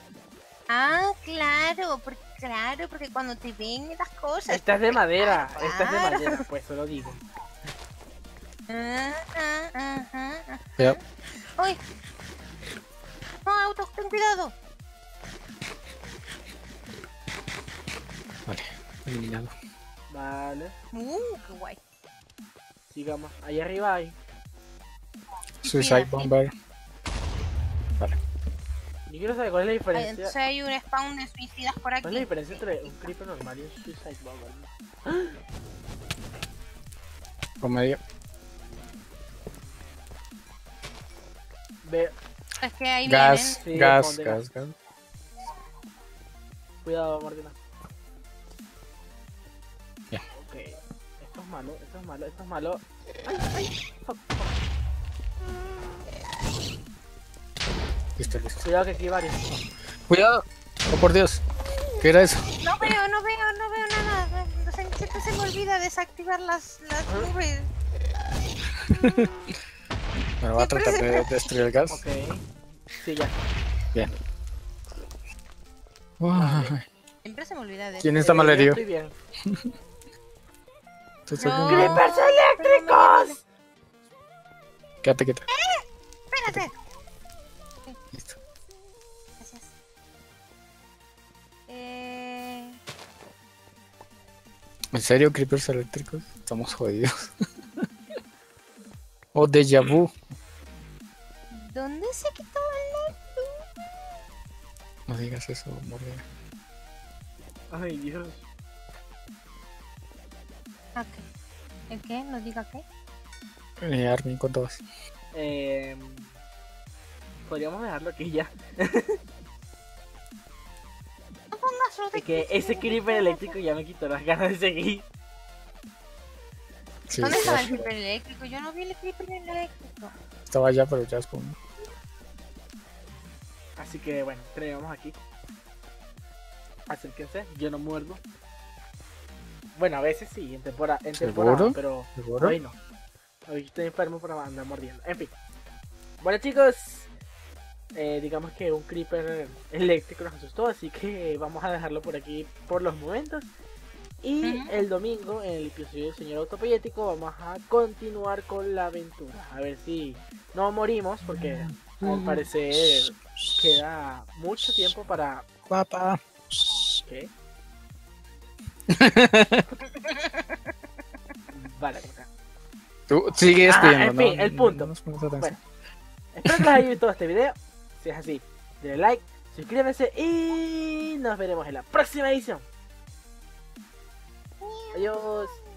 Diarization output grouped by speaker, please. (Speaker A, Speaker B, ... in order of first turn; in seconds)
Speaker A: 0.7-6.4, 8.7-11.0, 13.4-14.5, 20.9-21.8, 25.6-26.3, 29.9-33.1, 42.6-43.6, 62.6-67.7, 70.5-71.3, 77.2-78.2, 81.4-83.4, 85.5-86.7, 89.4-89.7, 91.7-92.8, 101.5-103.7, 110.9-111.2, 111.9-112.8, 121.5-123.5, 127.2-130.1, 154.4-154.7, 169.9-170.6, 184.6-185.2
Speaker B: 4.5-7.2, 20.1-20.7, 22.9-24.1, 29.1-30.3, 32.0-35.4, 41.8-42.1, 43.6-44.4, 46.8-47.5, 50.4-54.6, 58.6-59.4, 71.9-73.4, 76.3-76.7, 78.2-79.1, 81.7-83.4, 107.7-108.4, 115.3-116.3, 117.5-119.2, 122.1-125.0, 133.8-135.2, 136.9-138.2, 139.8-142.8, 143.5-145.3, 146.2-147.1, 147.9-153.5, 154.2-165.4, 171.5-172.3, 173.6-175.6, 176.3-182.6, 184.9-185.6
Speaker C: 18.4-19.5, 25.6-26.5, 37.6-38.0, 43.0-44.8, 58.2-58.7, 59.5-61.4, 62.0-62.5, 68.8-69.3, 70.4-72.0, 76.2-76.9, 78.0-78.8, 79.4-79.7, 81.3-82.0, 85.0-85.5, 88.1-88.4, 94.9-97.3, 99.3-100.1, 105.1-106.2, 113.8-114.8, 127.1-127.9, 130.5-131.6, 141.2-142.6, 161.3-162.5, 165.7-167.0, 168.9-169.7, 173.1-175.6, 176.4-176.8